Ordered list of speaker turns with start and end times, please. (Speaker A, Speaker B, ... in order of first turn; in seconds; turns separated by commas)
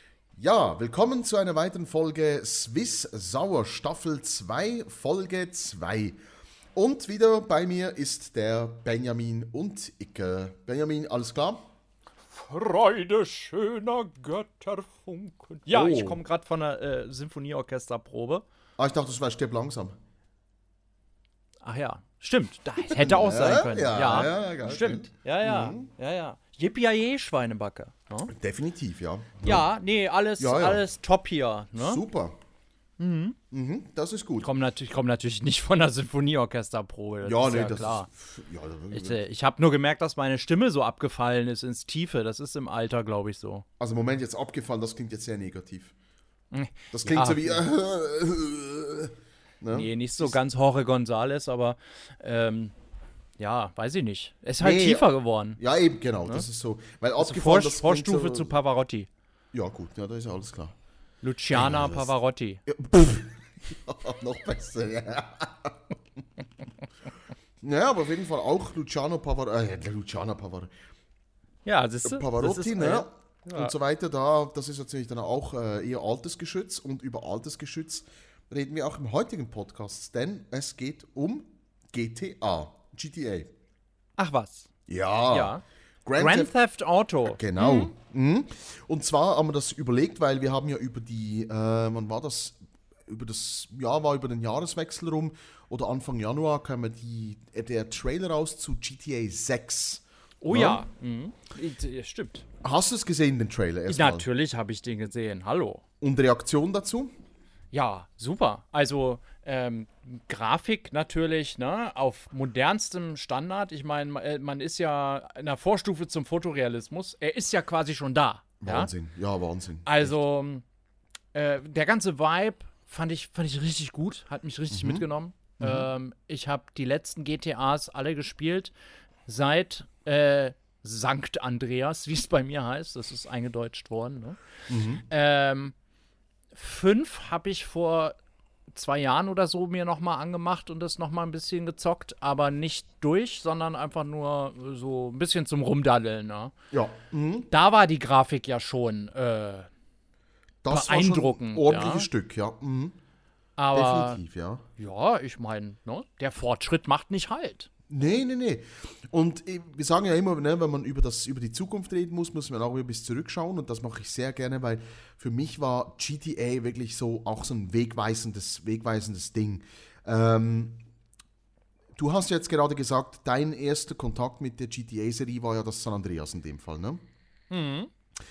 Speaker A: 0.4-6.2, Speaker A: 6.7-11.6, Speaker B: 12.3-18.4, Speaker A: 15.7-16.2, Speaker A: 18.8-19.9, Speaker B: 21.6-28.3, Speaker A: 22.8-25.9, Speaker A: 28.3-29.6, Speaker B: 29.4-32.0, Speaker A: 30.4-30.8, Speaker A: 31.8-32.4, Speaker B: 33.0-33.4, Speaker A: 33.5-34.5, Speaker B: 34.4-38.1, Speaker A: 37.2-39.2, Speaker B: 38.9-43.6, Speaker A: 43.8-45.9, Speaker B: 46.5-47.6, Speaker A: 46.9-50.4, Speaker B: 49.7-52.7, Speaker B: 53.4-55.6, Speaker A: 54.6-58.5, Speaker B: 57.2-59.1, Speaker A: 59.5-60.7, Speaker B: 61.2-62.6, Speaker A: 61.5-62.1, Speaker A: 62.6-65.8, Speaker A: 67.6-70.7, Speaker B: 71.6-73.7, Speaker A: 72.0-83.5, Speaker B: 84.2-84.7, Speaker A: 84.9-86.5, Speaker B: 85.3-85.6, Speaker B: 86.2-87.9, Speaker A: 87.2-92.5, Speaker A: 93.1-100.8, Speaker B: 100.4-102.5, Speaker A: 102.6-104.3, Speaker B: 103.9-105.8, Speaker A: 106.0-107.1, Speaker B: 107.7-118.9, Speaker A: 118.6-120.2, Speaker B: 119.8-120.6, Speaker B: 121.3-128.7, Speaker A: 124.7-125.0, Speaker A: 125.6-125.9, Speaker B: 129.2-134.4, Speaker A: 134.7-135.0, Speaker B: 135.0-135.7, Speaker B: 136.5-138.1, Speaker B: 138.7-146.5, Speaker A: 146.7-147.5, Speaker B: 147.5-149.7, Speaker A: 150.6-152.9, Speaker B: 150.7-152.1, Speaker B: 153.6-154.2, Speaker A: 153.7-154.6, Speaker B: 154.8-157.7, Speaker A: 157.9-170.8, Speaker A: 172.0-177.0, Speaker B: 177.5-177.9